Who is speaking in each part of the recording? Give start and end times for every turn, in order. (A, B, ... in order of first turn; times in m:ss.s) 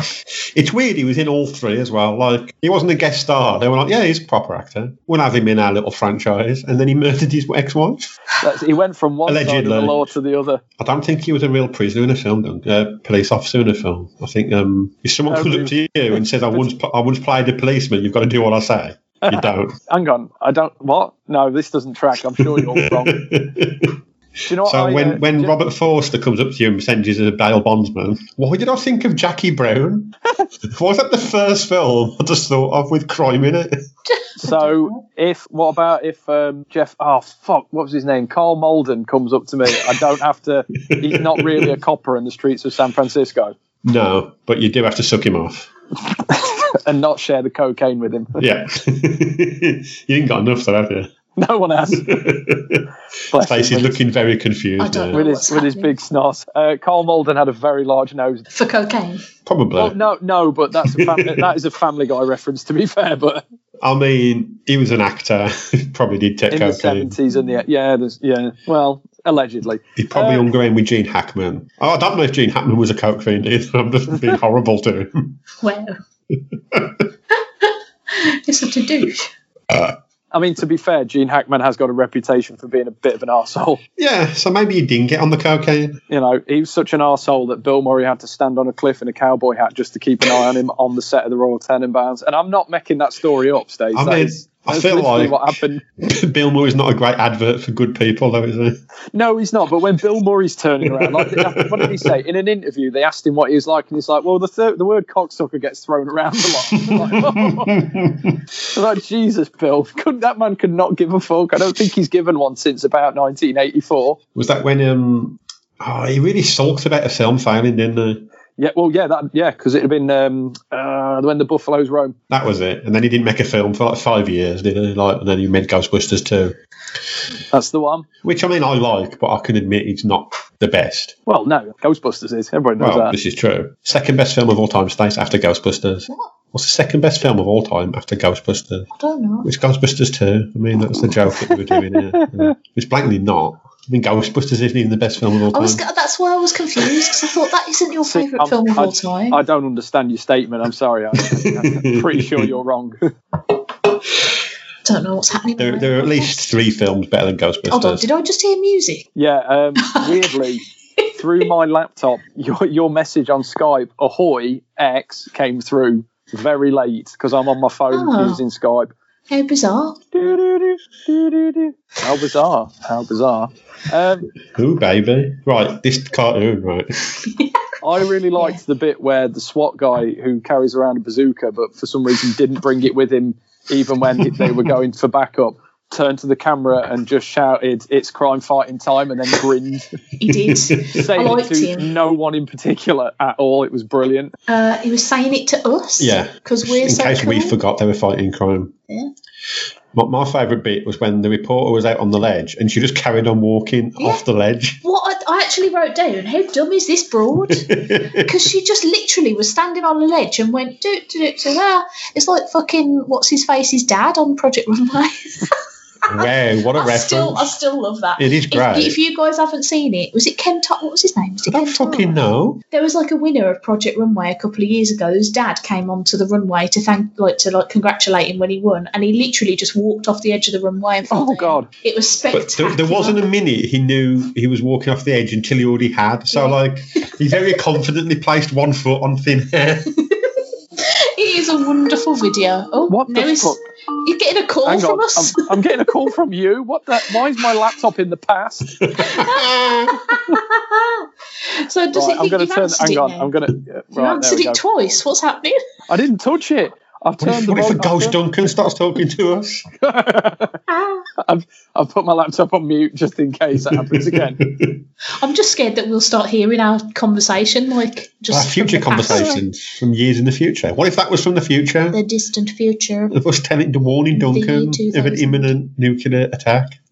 0:00.5-0:08.1 A
0:08.4-0:10.6 B
0:09.2-0:10.1 A
0:10.8-0:19.7 A
0:15.3-0:15.7 B
0:19.2-0:23.2 B
0:22.4-0:24.0 A
0:24.5-0:25.5 B
0:24.6-0:33.7 A
0:34.1-0:35.0 C
0:34.4-0:43.5 B
0:40.9-0:41.7 A
0:43.8-0:45.7 A
0:46.3-0:48.4 B
0:48.4-0:51.1 A
0:51.4-0:52.1 B
0:51.9-0:55.2 A
0:53.3-0:54.0 B
0:54.8-0:55.9 C
0:55.1-0:58.5 B
0:58.5-0:59.2 C
0:59.4-1:00.0 A
0:59.8-1:03.4 B
1:00.8-1:01.5 A
1:03.8-1:07.1 A
1:06.5-1:10.5 B
1:10.0-1:15.3 A
1:15.6-1:16.0 C
1:16.3-1:17.0 A
1:17.6-1:19.3 C
1:19.7-1:20.0 A
1:20.3-1:23.8 B
1:24.0-1:26.0 A
1:26.1-1:35.8 B
1:33.9-1:38.8 A
1:39.1-1:47.9 B
1:40.8-1:42.2 A
1:46.7-1:48.4 A
1:48.7-1:54.2 B
1:54.3-1:58.2 A
1:58.6-2:02.2 B
2:02.3-2:06.6 A
2:07.5-2:08.0 B
2:08.2-2:11.1 A
2:11.3-2:13.1 B
2:12.8-2:18.9 A
2:18.9-2:19.5 C
2:19.4-2:25.8 A
2:21.4-2:22.5 B
2:25.5-2:29.4 C
2:28.0-2:33.1 B
2:31.3-2:32.5 A
2:34.8-2:36.5 C
2:35.6-2:38.0 A
2:37.7-2:39.1 C
2:39.2-2:40.6 B
2:39.8-2:40.4 C
2:41.2-2:48.9 B
2:47.9-2:48.4 C
2:49.3-2:50.0 C
2:50.1-2:54.3 B
2:54.5-2:57.2 A
2:57.8-3:09.9 B
3:04.2-3:04.6 A
3:10.2-3:11.9 C
3:10.3-3:11.0 A
3:10.9-3:14.3 B
3:14.5-3:17.6 C
3:16.0-3:18.7 A
3:19.9-3:24.8 A
3:24.8-3:42.1 C
3:27.5-3:28.4 A
3:36.1-3:37.5 A
3:38.2-3:39.0 A
3:41.5-3:42.6 A
3:42.7-3:53.2 C
3:51.1-3:51.7 B
3:52.3-3:59.9 A
3:56.3-3:56.6 C
4:00.1-4:05.5 C
4:02.9-4:03.6 B
4:04.6-4:08.8 B
4:08.8-4:10.1 A
4:09.0-4:13.3 C
4:11.9-4:14.6 B
4:13.9-4:15.6 C
4:15.9-4:18.2 B
4:17.2-4:19.6 A
4:19.8-4:20.6 B
4:20.7-4:21.0 C
4:21.2-4:24.4 B
4:23.7-4:24.8 A
4:25.2-4:29.4 C
4:28.3-4:32.0 A
4:31.9-4:33.1 C
4:33.1-4:36.8 A
4:34.1-4:35.5 C